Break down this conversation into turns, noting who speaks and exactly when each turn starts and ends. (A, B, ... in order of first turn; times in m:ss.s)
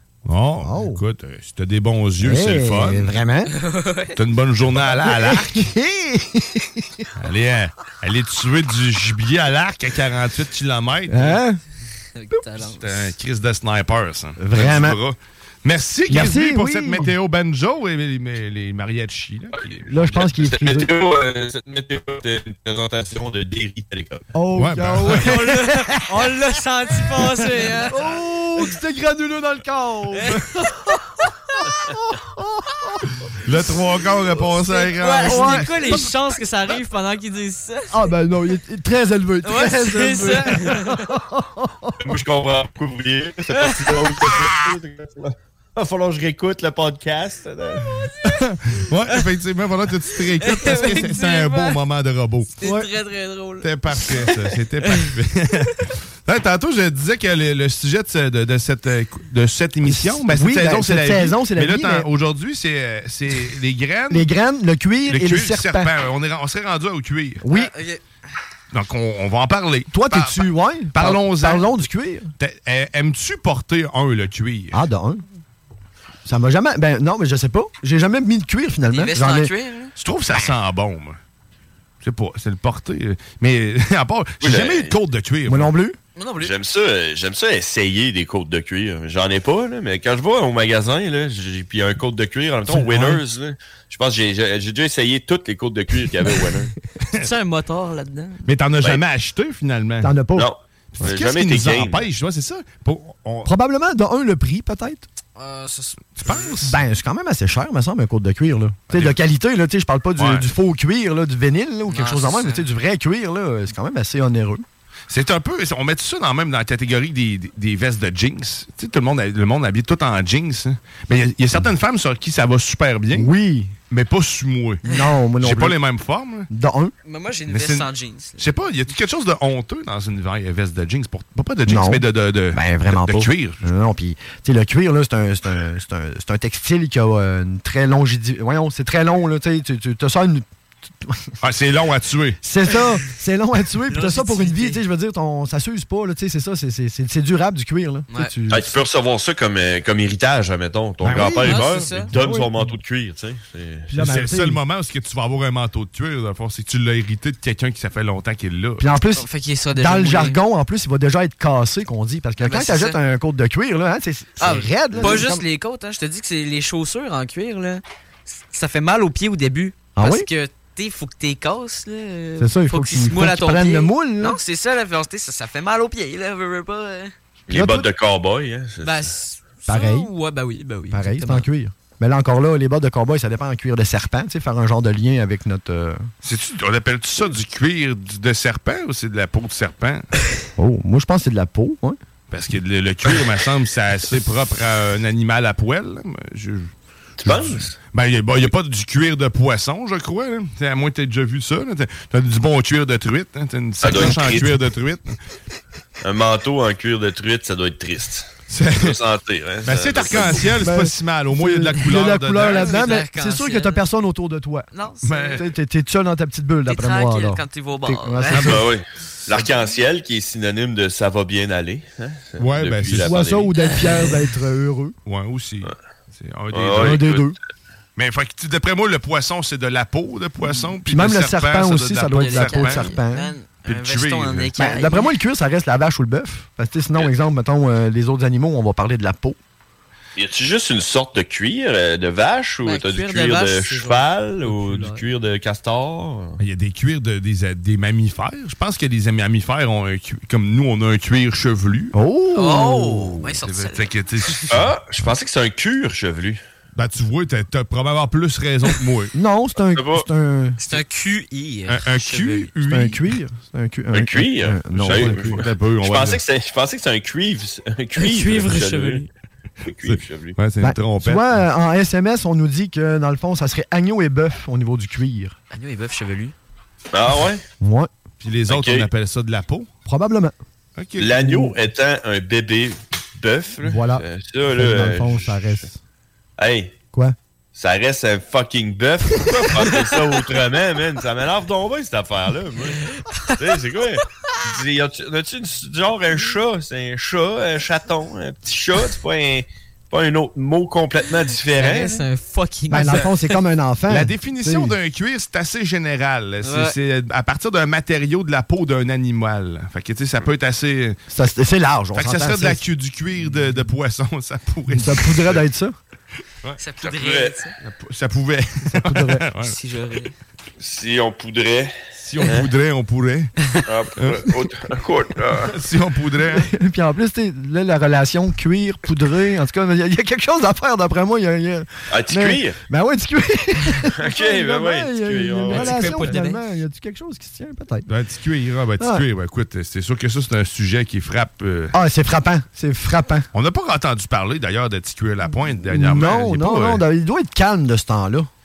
0:00.2-0:03.1 A
0:00.6-0:01.0 B
0:02.2-0:03.5 B
0:03.5-0:04.2 C
0:04.2-0:05.7 A
0:05.0-0:07.1 B
0:07.2-0:11.4 A
0:11.1-0:11.6 B
0:12.1-0:13.1 C
0:12.6-0:20.3 A
0:14.4-0:15.0 B
0:16.1-0:17.1 B
0:19.9-0:20.9 B
0:20.2-0:24.2 D
0:24.3-0:26.3 B
0:24.6-0:25.3 A
0:25.0-0:28.0 C
0:27.9-0:33.0 B
0:30.1-0:31.3 C
0:33.4-0:35.7 A
0:34.4-0:38.0 C
0:35.2-0:36.1 B
0:37.9-0:42.0 B
0:39.4-0:41.1 C
0:42.0-0:47.8 D
0:48.2-0:52.5 A
0:50.4-0:51.8 C
0:52.6-0:54.3 C
0:52.6-0:52.9 B
0:53.6-1:04.3 A
0:59.8-1:02.1 B
1:04.1-1:05.9 B
1:05.1-1:07.4 A
1:07.4-1:07.7 B
1:07.5-1:08.0 C
1:08.7-1:11.8 A
1:09.9-1:12.3 B
1:12.4-1:14.8 A
1:14.7-1:15.2 B
1:16.2-1:19.5 B
1:18.9-1:19.9 C
1:20.0-1:21.2 A
1:22.0-1:25.7 A
1:24.4-1:25.0 D
1:25.5-1:26.0 B
1:26.2-1:26.5 C
1:26.4-1:36.7 D
1:32.7-1:33.2 B
1:37.1-1:38.5 C
1:38.4-1:40.1 A
1:40.0-1:40.5 B
1:40.4-1:42.1 D
1:41.0-1:43.5 A
1:43.4-1:45.0 B
1:45.4-1:46.6 C
1:46.2-1:46.8 A
1:46.5-1:54.6 B
1:48.9-1:49.2 A
1:50.2-1:50.4 A
1:51.9-1:52.6 C
1:55.1-2:03.3 A
2:03.1-2:03.7 B
2:03.9-2:04.8 A
2:04.8-2:05.8 B
2:05.4-2:06.5 A
2:06.5-2:06.9 B
2:07.0-2:08.6 C
2:07.5-2:13.6 A
2:11.7-2:20.4 B
2:21.0-2:21.3 B
2:21.4-2:22.4 A
2:22.4-2:28.8 B
2:23.9-2:24.8 C
2:28.5-2:33.9 D
2:31.0-2:32.7 B
2:31.2-2:32.1 C
2:33.9-2:34.6 B
2:34.0-2:38.8 A
2:38.8-2:45.4 B
2:39.2-2:40.4 C
2:42.4-2:43.0 C
2:44.4-2:57.1 C
2:50.0-2:50.3 B
2:52.4-2:54.4 B
2:57.5-2:59.1 D
2:57.5-2:57.8 B
2:58.8-3:01.5 C
2:59.7-3:00.1 B
3:00.9-3:06.1 B
3:06.2-3:10.1 A
3:10.6-3:12.0 B
3:12.3-3:16.7 A
3:17.2-3:17.7 D
3:17.2-3:25.2 A
3:23.8-3:24.6 D
3:26.0-3:30.5 D
3:28.5-3:29.0 A
3:29.6-3:32.8 A
3:30.6-3:34.7 B
3:32.4-3:33.8 C
3:34.7-3:35.4 C
3:35.0-3:35.4 A
3:35.3-3:38.7 B
3:36.7-3:38.6 C
3:38.4-3:38.6 A
3:38.4-3:43.5 D
3:42.4-3:43.2 A
3:42.9-3:44.9 B
3:43.6-3:44.2 C
3:45.0-3:47.2 A
3:46.5-3:47.2 D
3:46.8-3:47.3 B
3:48.0-3:52.9 A
3:50.4-3:53.3 B
3:52.1-3:55.1 C
3:53.6-3:54.5 A
3:54.6-3:59.4 B
4:00.2-4:06.4 D
4:02.6-4:05.0 C
4:06.4-4:11.9 A
4:11.9-4:13.2 B
4:12.3-4:14.6 C
4:13.4-4:14.7 A
4:14.5-4:16.4 D
4:16.8-4:19.1 A
4:19.1-4:20.6 B
4:19.7-4:20.1 D
4:20.6-4:22.5 C
4:21.7-4:23.1 A
4:22.6-4:25.4 B
4:23.9-4:29.0 D
4:24.7-4:26.2 A
4:28.0-4:29.1 C
4:29.6-4:30.4 D
4:29.8-4:31.4 A
4:30.6-4:35.3 B
4:35.5-4:36.3 C
4:36.9-4:37.4 D
4:37.6-4:37.9 B
4:38.2-4:39.7 A
4:38.5-4:38.9 D
4:39.9-4:40.3 B
4:40.8-4:41.2 A
4:41.0-4:45.7 D
4:41.2-4:41.5 B
4:43.6-4:44.0 B
4:44.5-4:45.8 B
4:46.4-4:46.7 D
4:47.5-4:52.8 D
4:49.6-4:49.9 C
4:52.8-4:53.4 C
4:53.4-5:02.0 D
5:01.5-5:03.3 C
5:02.7-5:04.7 B
5:03.9-5:11.0 A
5:06.4-5:06.7 C
5:11.1-5:12.6 B
5:11.9-5:15.4 A
5:14.7-5:15.7 B
5:16.6-5:17.5 C
5:16.8-5:17.4 D
5:17.6-5:19.6 A
5:18.7-5:19.2 B
5:19.4-5:20.1 C
5:20.6-5:22.5 D
5:22.0-5:23.3 A
5:23.7-5:25.5 D
5:24.0-5:24.3 A
5:25.4-5:26.5 A
5:26.3-5:37.9 B
5:31.9-5:32.6 D
5:34.0-5:36.1 D
5:35.5-5:36.4 C
5:37.9-5:41.7 A
5:38.8-5:39.0 B
5:41.7-5:43.3 B
5:43.3-5:46.8 A
5:45.6-5:48.3 B